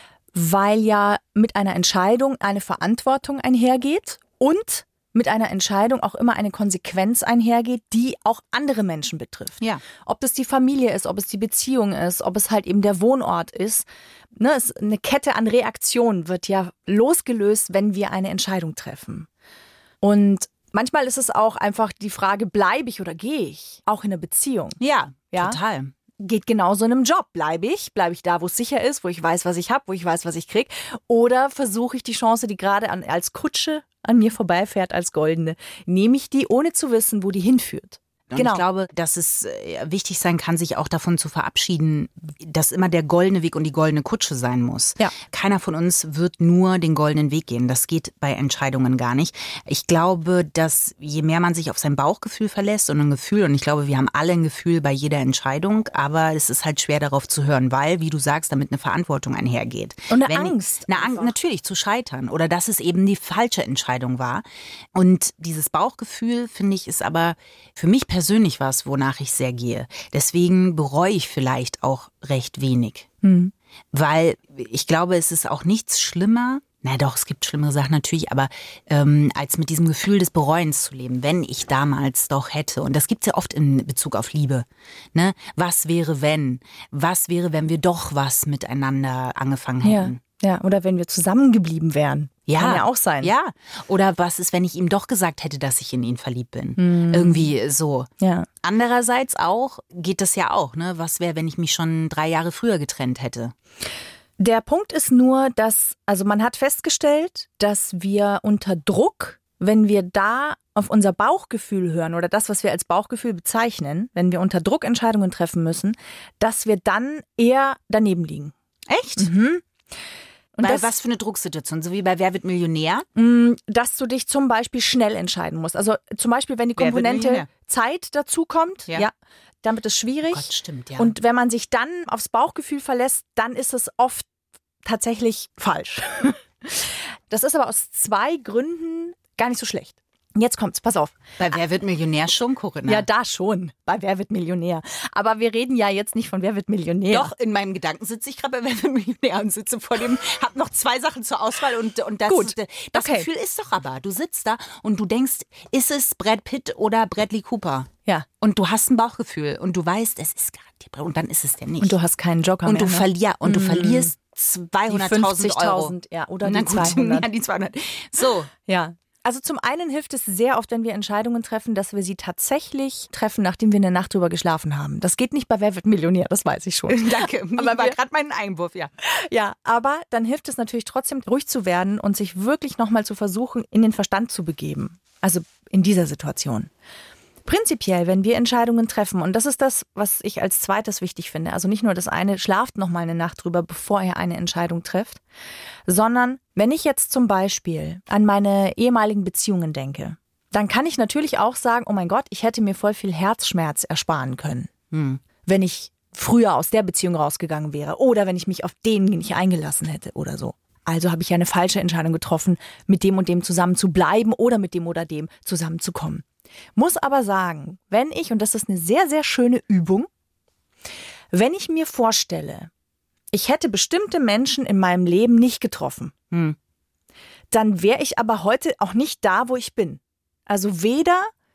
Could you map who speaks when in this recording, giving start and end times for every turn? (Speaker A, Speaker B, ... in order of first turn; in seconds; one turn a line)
Speaker A: 0.3-19.3
Speaker A: 20.0-24.8
Speaker B: 24.8-25.9
Speaker A: 25.3-25.6
Speaker A: 26.2-38.6
Speaker B: 38.3-73.1
Speaker A: 60.1-61.3
Speaker A: 73.2-73.5
Speaker B: 73.9-90.2
Speaker A: 89.8-93.3
Speaker B: 92.5-98.1
Speaker A: 96.8-97.5
Speaker A: 98.2-98.5
Speaker B: 98.6-103.5
Speaker A: 104.4-118.5
Speaker B: 118.9-119.3
Speaker A: 119.2-119.6
Speaker A: 120.5-120.9
Speaker B: 120.6-123.0
Speaker A: 123.2-134.3
Speaker B: 126.8-127.5
Speaker B: 130.3-131.1
Speaker A: 134.8-141.2
Speaker B: 141.4-143.1
Speaker A: 142.8-147.3
Speaker B: 147.1-157.9
Speaker A: 152.3-153.3
Speaker B: 158.4-161.9
Speaker A: 161.8-164.1
Speaker B: 162.6-168.5
Speaker A: 164.9-167.3
Speaker A: 168.7-178.0
Speaker B: 176.9-178.9
Speaker A: 179.0-186.7
Speaker A: 187.4-195.2
Speaker A: 195.9-204.7
Speaker B: 204.9-205.2
Speaker A: 205.4-216.2
Speaker A: 216.8-220.1
Speaker A: 221.3-222.7
Speaker A: 223.3-226.1
Speaker B: 226.3-226.6
Speaker A: 227.5-231.3